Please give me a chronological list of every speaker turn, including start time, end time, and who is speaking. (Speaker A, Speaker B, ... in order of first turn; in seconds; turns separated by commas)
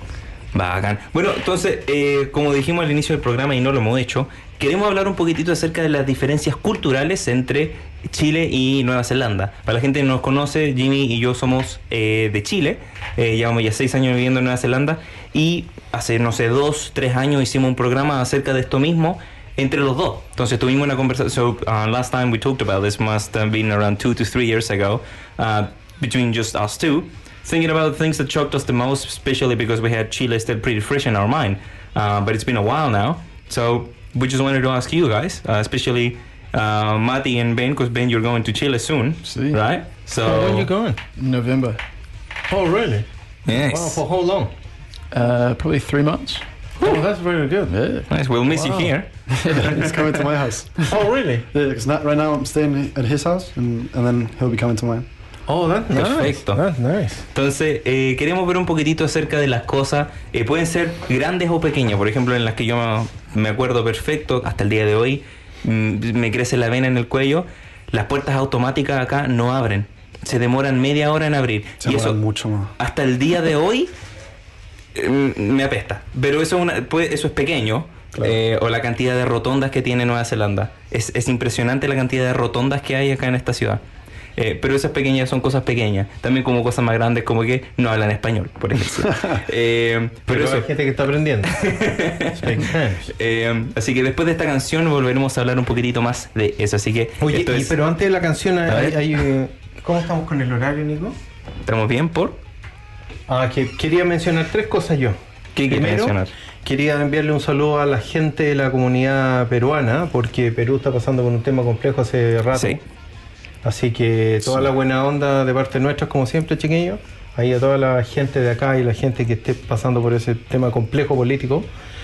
Speaker A: 0.5-40.7, Speaker B: 39.3-39.6, Speaker C: 40.2-41.0, Speaker B: 41.2-41.8, Speaker C: 42.5-44.5, Speaker A: 43.5-44.0, Speaker B: 45.1-46.4, Speaker C: 46.8-47.7, Speaker B: 47.7-48.1, Speaker A: 48.1-49.1, Speaker B: 49.3-49.9, Speaker D: 49.6-50.9, Speaker C: 50.9-51.5, Speaker D: 51.5-55.1, Speaker C: 55.5-57.2, Speaker A: 55.9-56.6, Speaker A: 57.3-72.2, Speaker D: 71.8-72.7, Speaker A: 72.8-73.9, Speaker A: 75.0-83.8, Speaker A: 84.4-90.7, Speaker C: 90.3-93.1, Speaker A: 91.5-92.6, Speaker A: 93.1-97.8, Speaker C: 97.2-101.2, Speaker A: 98.7-99.2, Speaker A: 101.7-102.4, Speaker C: 103.3-105.2, Speaker A: 105.5-106.3, Speaker C: 105.7-112.8, Speaker A: 112.5-112.8, Speaker C: 113.6-121.7